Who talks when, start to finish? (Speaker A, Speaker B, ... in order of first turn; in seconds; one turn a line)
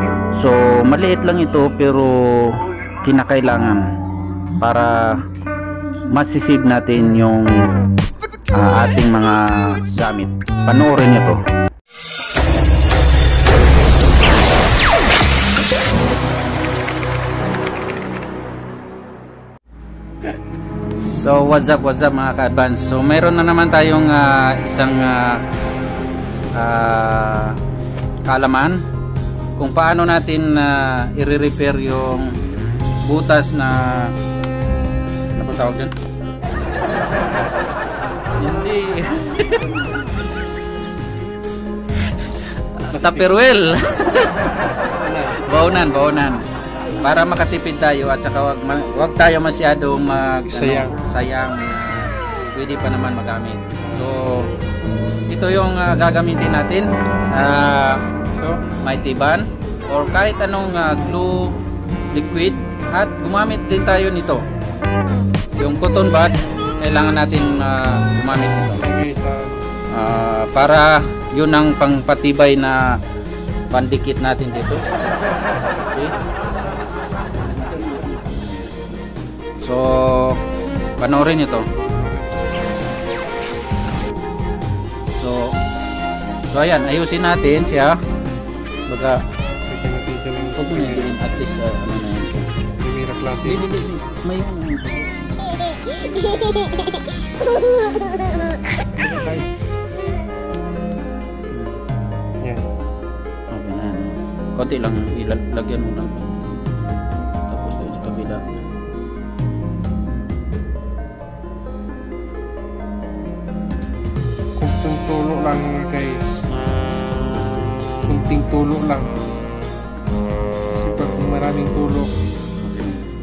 Speaker A: 0.3-3.8
Speaker A: 4.6-5.2
Speaker A: 6.1-7.5
Speaker A: 8.5-11.4
Speaker A: 21.1-25.4
Speaker A: 26.5-27.6
Speaker A: 28.2-28.8
Speaker A: 29.6-32.3
Speaker A: 33.0-34.1
Speaker A: 35.4-35.9
Speaker A: 38.4-39.8
Speaker A: 42.8-44.5
Speaker B: 42.9-43.3
Speaker B: 45.0-45.4
Speaker A: 45.2-46.4
Speaker A: 47.0-54.5
Speaker B: 50.5-51.0
Speaker A: 55.3-58.0
Speaker B: 58.4-58.6
Speaker A: 58.8-61.5
Speaker A: 62.1-64.4
Speaker A: 65.6-68.8
Speaker B: 68.7-69.6
Speaker A: 69.9-73.0
Speaker A: 73.7-74.8
Speaker A: 75.9-76.1
Speaker A: 79.6-80.4
Speaker A: 81.0-81.7
Speaker A: 85.2-85.6
Speaker A: 86.5-88.0
Speaker A: 88.9-89.2
Speaker B: 89.7-91.1
Speaker A: 90.6-92.5
Speaker B: 92.8-93.6
Speaker A: 93.4-95.5
Speaker B: 99.0-99.4
Speaker A: 101.5-101.8
Speaker B: 102.4-102.7
Speaker A: 103.5-106.5
Speaker A: 107.5-108.4
Speaker B: 114.5-116.4
Speaker B: 118.0-119.1
Speaker B: 120.7-122.1
Speaker A: 122.6-123.0